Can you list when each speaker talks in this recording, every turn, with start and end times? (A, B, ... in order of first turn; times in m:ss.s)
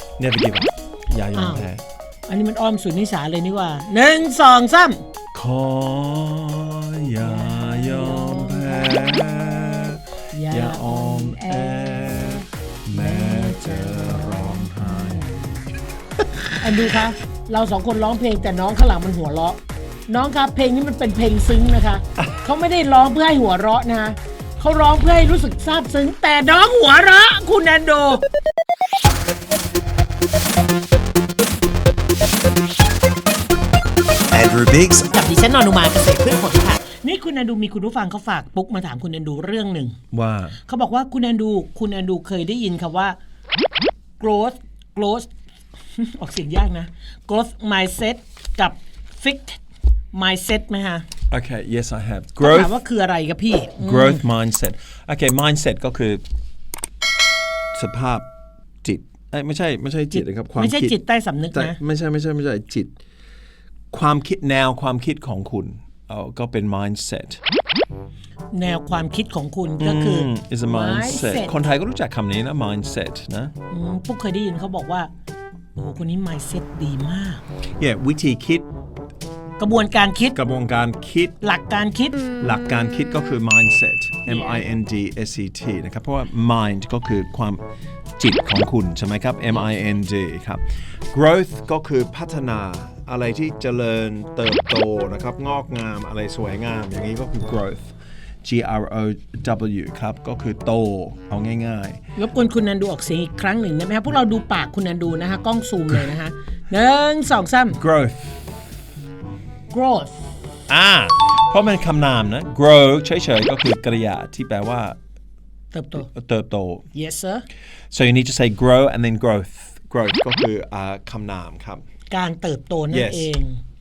0:00.2-0:01.8 A
0:01.3-0:01.7 B
0:02.3-0:05.0 B
0:05.3-0:15.2 A
0:07.2-0:15.6 B
0:16.6-0:28.2 B
0:34.3-0:35.1 A
0:35.1-0:40.0 B
0:40.1-0:40.6 A
0:40.6-0:43.2 B
0:44.2-0:45.3 B
0:46.0-0:49.6 B
0:50.1-0:51.0 B
0:51.3-0:52.8 A
0:52.4-0:54.2 B
0:53.8-0:56.2 A
0:57.7-0:58.2 A
0:58.8-1:00.9 A
1:00.1-1:01.8 B
1:01.5-1:02.9 A
1:03.9-1:07.4 A
1:08.5-1:11.5 B
1:09.8-1:13.5 A
1:13.7-1:15.1 B
1:15.8-1:17.4 B
1:17.8-1:18.7 A
1:19.6-1:20.4 B
1:20.3-1:21.4 A
1:21.4-1:22.2 B
1:22.4-1:27.6 A
1:24.2-1:24.6 B
1:28.2-1:42.0 A
1:42.2-1:47.8 B
1:47.8-1:48.5 A
1:49.7-1:50.3 B
1:50.7-1:55.0 A
1:55.7-1:56.1 B
1:56.0-1:56.8 A
1:56.9-1:57.4 B
1:57.9-2:01.8 A
2:02.1-2:03.6 B
2:02.9-2:03.3 A